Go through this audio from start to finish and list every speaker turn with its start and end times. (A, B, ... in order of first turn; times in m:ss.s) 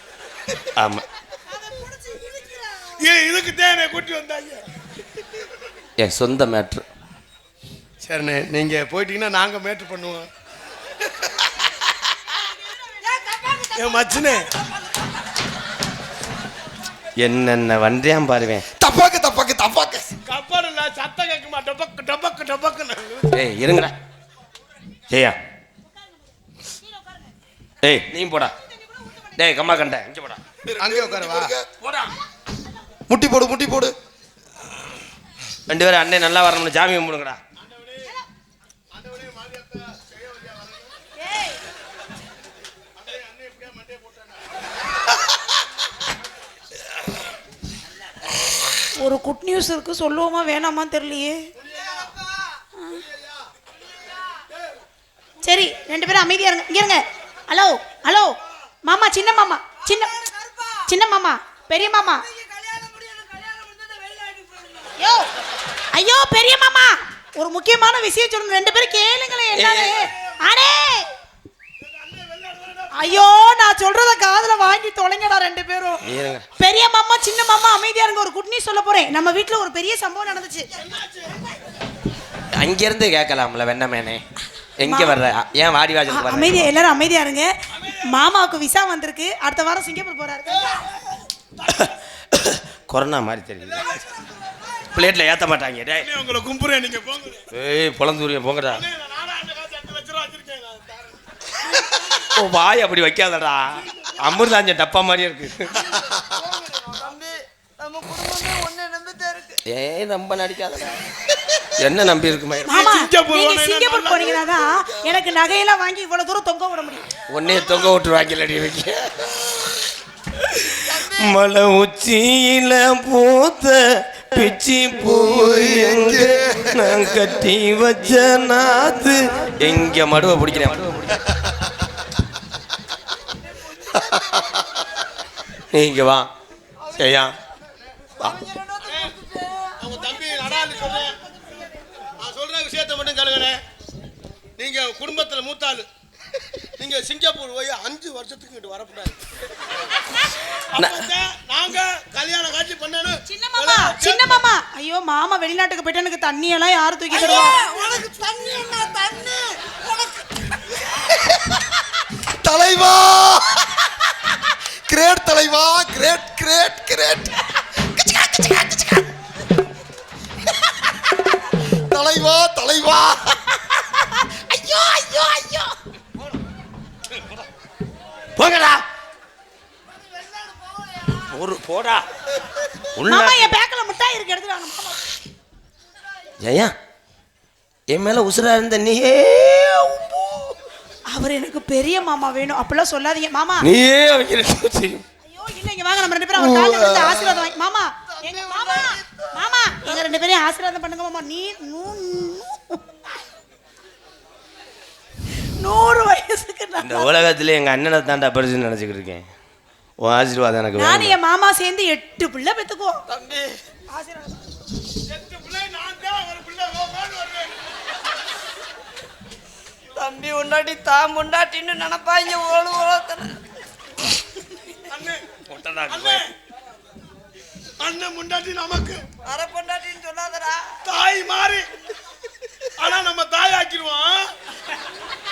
0:00.8-0:01.0 A
0:01.6-0:03.0 B
0:03.0-0:04.6 C
0:06.0-0:06.8 A
0:08.0-0:10.3 C
0:12.8-0:14.4 B
0:13.7-0:14.5 C
0:17.2-0:18.6 A
0:18.8-0:20.2 D
0:20.2-0:23.3 C
0:23.3-0:23.9 A
0:25.1-0:25.4 A
0:27.8-0:28.5 A
0:29.4-0:30.4 A
0:30.6-0:31.7 D
0:30.8-0:31.5 C
0:33.1-0:33.9 D
0:35.7-0:37.4 A
0:37.6-0:38.1 C
0:38.9-0:40.9 C
0:43.0-0:44.4 C
0:49.0-0:51.5 E
0:51.6-0:52.5 B
0:52.8-0:53.0 E
0:55.4-1:00.1 E
0:59.8-1:00.9 B
1:00.9-1:02.2 E
1:02.0-1:05.0 B
1:05.0-1:05.3 E
1:05.9-1:11.1 E
1:09.5-1:10.0 A
1:11.8-1:13.2 C
1:12.9-1:16.0 E
1:16.0-1:16.4 A
1:16.6-1:20.7 E
1:20.8-1:21.4 C
1:22.5-1:24.2 A
1:24.8-1:26.7 A
1:24.8-1:25.2 E
1:26.1-1:30.8 E
1:31.7-1:33.8 A
1:33.8-1:34.0 C
1:34.9-1:36.1 A
1:36.0-1:37.5 C
1:37.5-1:38.8 A
1:38.7-1:41.2 C
1:41.8-1:42.1 C
1:42.3-1:45.8 A
1:45.8-1:49.6 B
1:49.7-1:51.1 A
1:51.8-1:52.9 A
1:52.6-1:57.1 E
1:52.7-1:54.5 C
1:57.3-1:59.3 A
2:00.6-2:11.2 A
2:05.0-2:07.0 D
2:13.8-2:14.6 B
2:14.1-2:14.4 D
2:15.7-2:16.3 A
2:16.9-2:17.3 A
2:18.2-2:21.7 B
2:19.8-2:21.2 C
2:22.2-2:23.6 C
2:24.6-2:25.9 C
2:26.8-2:29.2 C
2:30.7-2:34.4 C
2:30.8-2:31.0 A
2:33.3-2:37.6 E
2:37.1-2:40.5 B
2:42.3-2:49.0 D
2:51.7-2:53.6 D
2:54.5-2:55.7 A
2:58.4-2:58.8 A
3:00.5-3:01.0 B
3:01.3-3:02.0 A
3:03.0-3:03.5 A
3:03.0-3:05.1 E
3:06.4-3:06.7 A
3:07.9-3:10.5 A
3:11.1-3:13.7 E
3:13.6-3:15.0 A
3:15.2-3:22.8 E
3:16.3-3:17.5 D
3:18.1-3:19.3 B
3:25.6-3:27.1 E
3:26.8-3:29.2 A
3:30.0-3:31.2 A
3:30.8-3:33.0 E
3:33.1-3:33.6 B
3:33.9-3:34.4 E
3:35.1-3:37.5 C
3:40.0-3:43.4 B
3:44.9-3:45.2 C
3:45.5-3:46.2 A
3:45.9-3:46.3 C
3:47.8-3:49.0 C
3:49.2-3:50.8 B
3:50.8-3:51.7 C
3:52.8-3:54.3 C